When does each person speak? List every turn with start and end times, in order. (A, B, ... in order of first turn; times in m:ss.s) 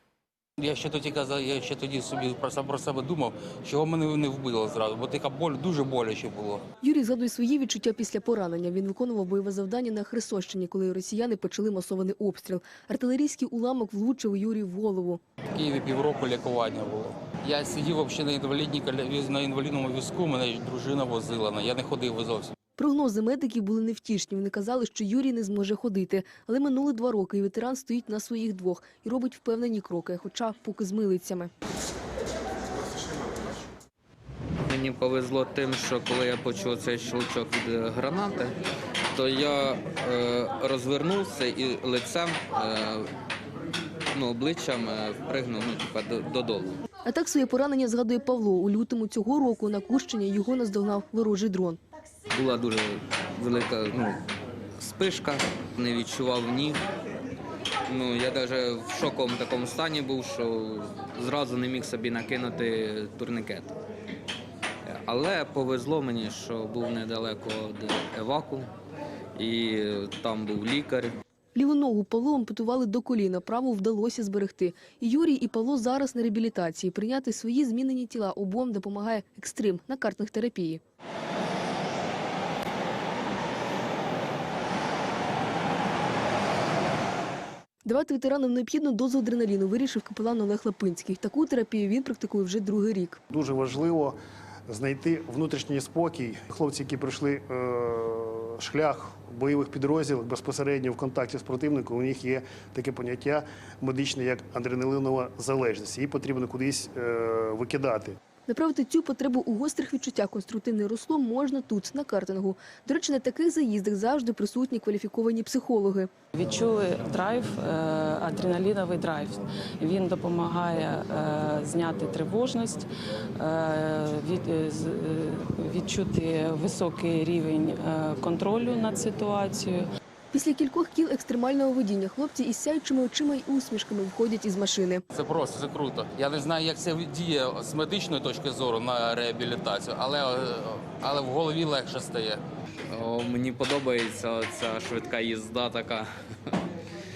0:00.6-0:06.6 A
0:06.8-0:15.2 B
0:15.5-0:22.5 A
0:22.8-0:31.5 B
0:34.6-0:38.5 C
0:39.1-0:43.1 C
0:44.1-0:46.8 C
0:47.0-0:51.8 B
0:52.3-0:54.2 C
0:54.8-0:56.8 C
0:57.9-1:03.8 C
1:04.8-1:08.7 C
1:09.4-1:11.1 C
1:11.5-1:20.8 B
1:27.8-1:33.2 B
1:33.3-1:34.2 D
1:34.7-1:48.2 D
1:48.5-1:56.1 B
1:56.3-2:02.8 E
2:03.4-2:09.9 E
2:10.3-2:15.0 B
2:15.1-2:22.4 A
2:22.9-2:26.6 C